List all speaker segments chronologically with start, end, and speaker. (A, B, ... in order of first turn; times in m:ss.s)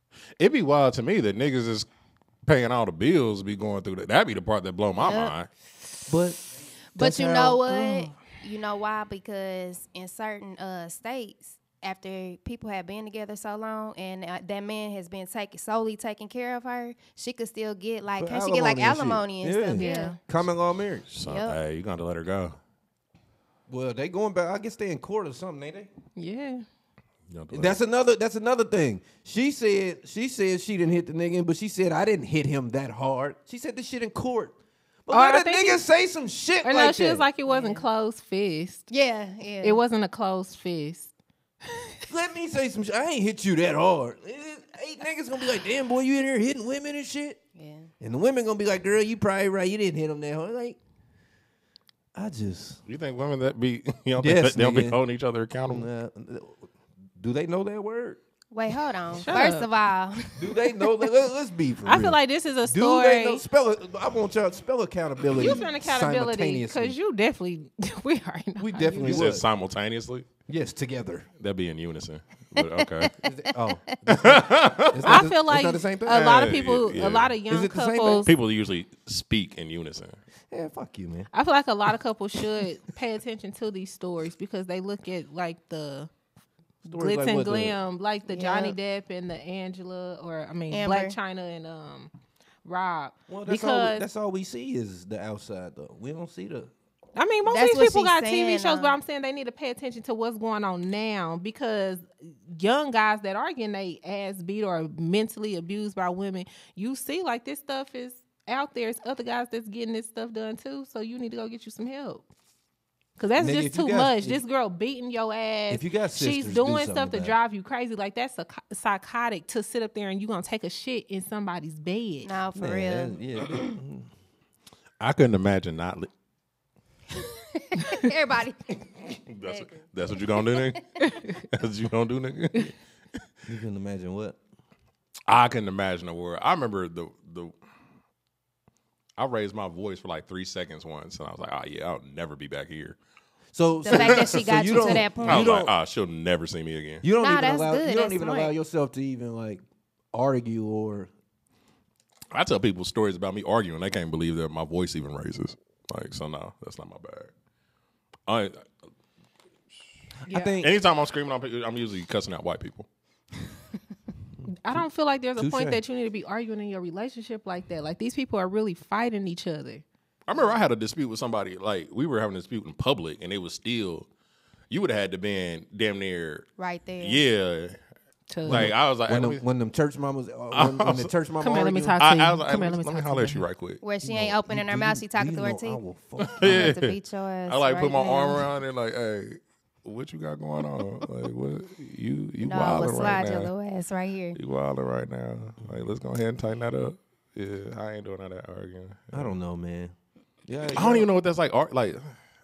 0:00.4-0:01.9 A
0:02.4-0:05.5 A
0:05.0-0:05.3 B
0:06.1-0:06.4 C
0:07.0-0:20.2 B
0:07.0-0:08.1 C
0:18.2-0:21.1 C
0:19.8-0:20.2 D
0:21.1-0:22.6 A
0:21.2-0:21.6 B
0:23.7-0:25.9 C
0:26.2-0:26.6 D
0:27.3-0:27.8 A
0:27.5-0:34.6 C
0:35.1-0:37.3 C
0:35.1-0:35.8 D
0:36.6-0:38.9 D
0:37.5-0:37.9 B
0:38.9-0:39.8 B
0:39.6-0:41.1 D
0:41.7-0:42.1 D
0:42.1-0:47.4 C
0:47.6-0:47.9 B
0:48.0-0:50.8 C
0:52.2-0:52.8 C
0:52.9-0:55.9 A
0:54.2-0:55.0 C
0:55.7-0:56.7 C
0:57.2-0:58.2 C
0:58.5-1:00.8 B
0:59.2-0:59.7 D
1:00.4-1:07.0 C
1:01.9-1:03.4 D
1:05.3-1:09.3 D
1:08.6-1:09.4 C
1:09.0-1:10.3 A
1:10.5-1:11.3 C
1:11.4-1:13.2 A
1:12.6-1:13.1 B
1:13.2-1:16.4 C
1:14.1-1:15.3 A
1:15.0-1:18.3 D
1:16.1-1:17.4 A
1:17.5-1:18.3 C
1:18.3-1:20.2 A
1:20.5-1:21.3 C
1:21.3-1:26.1 D
1:26.8-1:32.1 D
1:26.9-1:27.8 C
1:28.3-1:28.8 B
1:30.7-1:31.2 B
1:32.6-1:34.0 D
1:33.3-1:36.7 C
1:37.2-1:52.2 D
1:37.4-1:39.0 B
1:53.2-2:02.3 D
1:53.4-1:54.4 C
1:55.7-1:57.4 C
2:02.2-2:03.7 B
2:02.6-2:04.1 C
2:05.0-2:06.1 A
2:07.6-2:08.7 B
2:09.3-2:12.7 A
2:09.4-2:10.8 B
2:11.0-2:11.3 D
2:13.5-2:14.4 C
2:15.3-2:17.5 A
2:19.2-2:23.0 A
2:23.5-2:25.7 C
2:23.8-2:25.5 B
2:23.9-2:27.0 A
2:27.0-2:31.1 C
2:27.2-2:28.5 B
2:32.3-2:37.3 A
2:38.3-2:38.6 A
2:40.3-2:40.7 C
2:40.3-2:40.6 D
2:40.6-2:42.9 A
2:44.6-2:49.8 D
2:45.4-2:45.8 C
2:50.3-2:54.1 A
2:54.7-2:56.5 A
2:56.6-2:57.2 B
2:57.0-2:57.8 A
2:58.3-2:58.7 D
2:58.4-2:59.4 A
2:58.4-3:02.0 C
3:00.5-3:01.1 A
3:01.4-3:03.4 D
3:02.0-3:03.8 A
3:03.8-3:05.8 B
3:04.0-3:06.7 C
3:06.2-3:07.0 A
3:06.4-3:08.5 B
3:07.5-3:13.5 A
3:12.4-3:14.4 B
3:14.4-3:19.3 A
3:19.1-3:20.0 C
3:20.5-3:21.1 C
3:20.7-3:22.1 A